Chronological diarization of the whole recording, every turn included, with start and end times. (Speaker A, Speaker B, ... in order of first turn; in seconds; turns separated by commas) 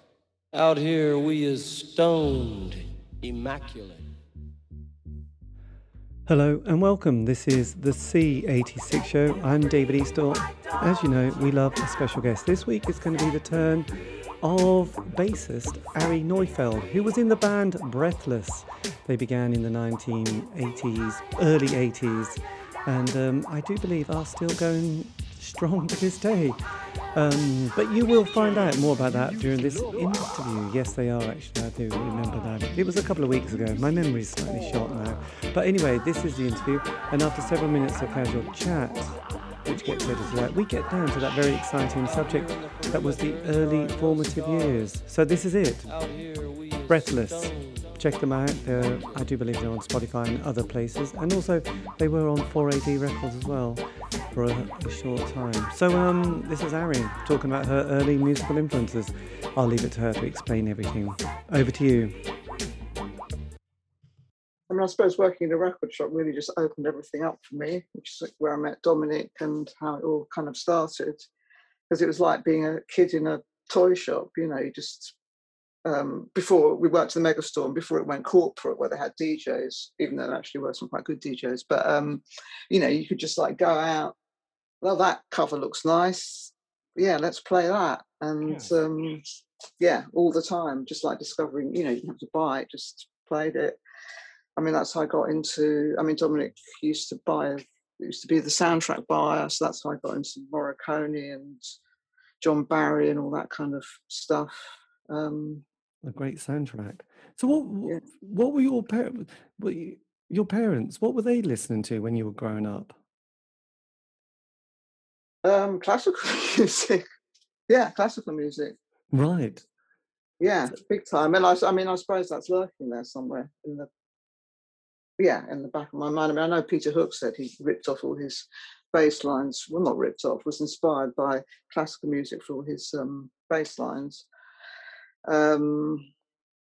Speaker A: 0.5-4.1, Speaker B: 6.3-13.9, Speaker B: 14.4-26.6, Speaker B: 27.1-45.9, Speaker A: 42.0-44.8, Speaker A: 45.8-48.0, Speaker B: 46.9-62.1, Speaker C: 64.7-71.3, Speaker C: 71.9-75.1, Speaker C: 75.8-84.2, Speaker C: 84.8-89.2, Speaker C: 89.8-93.8, Speaker C: 94.6-101.6, Speaker C: 102.4-105.6, Speaker B: 106.0-113.0, Speaker C: 115.4-117.0, Speaker C: 117.7-118.7, Speaker B: 119.1-119.6, Speaker C: 120.4-123.9, Speaker C: 125.2-134.2, Speaker C: 135.3-136.1